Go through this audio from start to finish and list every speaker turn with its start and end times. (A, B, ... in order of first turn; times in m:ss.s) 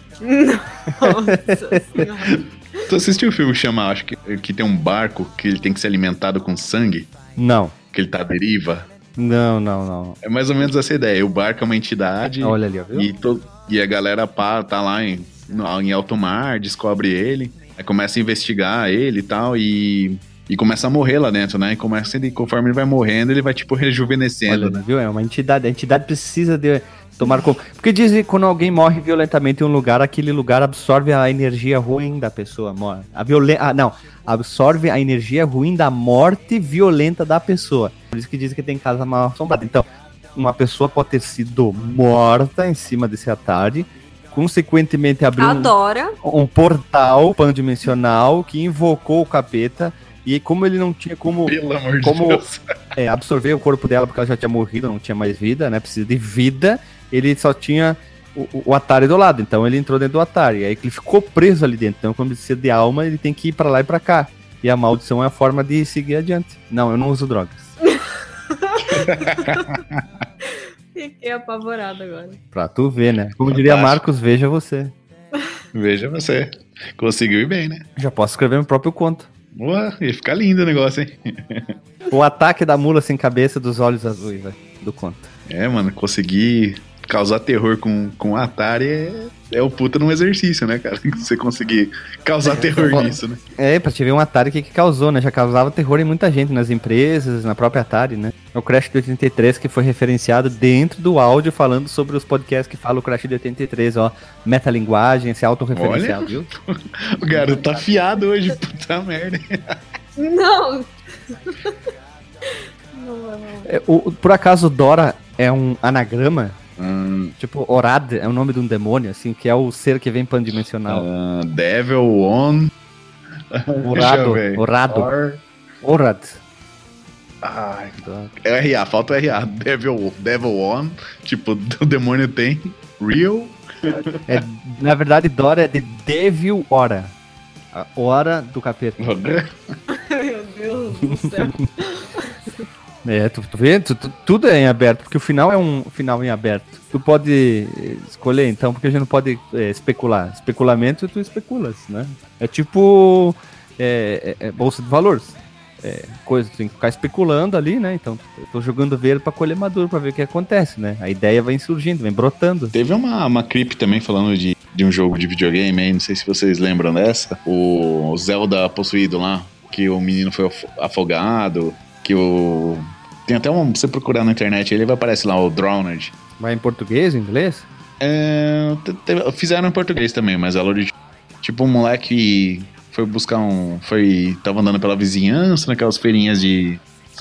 0:00.2-0:02.8 A
0:01.0-0:02.0 B
0:02.9-0:07.1 C
0:07.4-0:07.7 B
0:07.9-0:08.9 C
0:09.2-0:10.2 B
0:10.2-0:24.8 C
0:12.2-0:13.1 B
0:24.5-0:45.7 B
0:45.4-0:46.2 A
0:46.2-0:52.4 B
0:51.3-0:52.6 C
0:53.0-1:07.7 B
1:08.5-1:09.8 A
1:08.9-1:10.2 C
1:10.4-1:12.4 A
1:12.5-1:14.9 B
1:13.4-1:14.0 C
1:15.7-1:17.8 C
1:18.0-1:19.3 B
1:19.5-1:21.7 C
1:22.1-1:25.3 B
1:25.5-1:33.4 C
1:32.4-1:46.5 B
1:45.7-1:49.8 C
1:47.3-1:47.8 B
1:50.2-1:51.7 A
1:52.4-1:53.7 A
1:53.6-1:56.6 B
1:56.8-1:57.3 C
1:57.4-2:01.1 B
2:00.9-2:02.7 C
2:03.5-2:05.4 C
2:03.8-2:05.1 B
2:05.8-2:06.4 B
2:07.4-2:14.4 C
2:08.0-2:08.3 B
2:14.3-2:17.1 B
2:17.7-2:19.0 B
2:19.0-2:19.8 C
2:19.9-2:22.6 A
2:21.0-2:21.6 B
2:23.0-2:42.7 B
2:42.7-2:56.1 C
2:56.4-2:57.7 B
2:58.0-3:06.8 C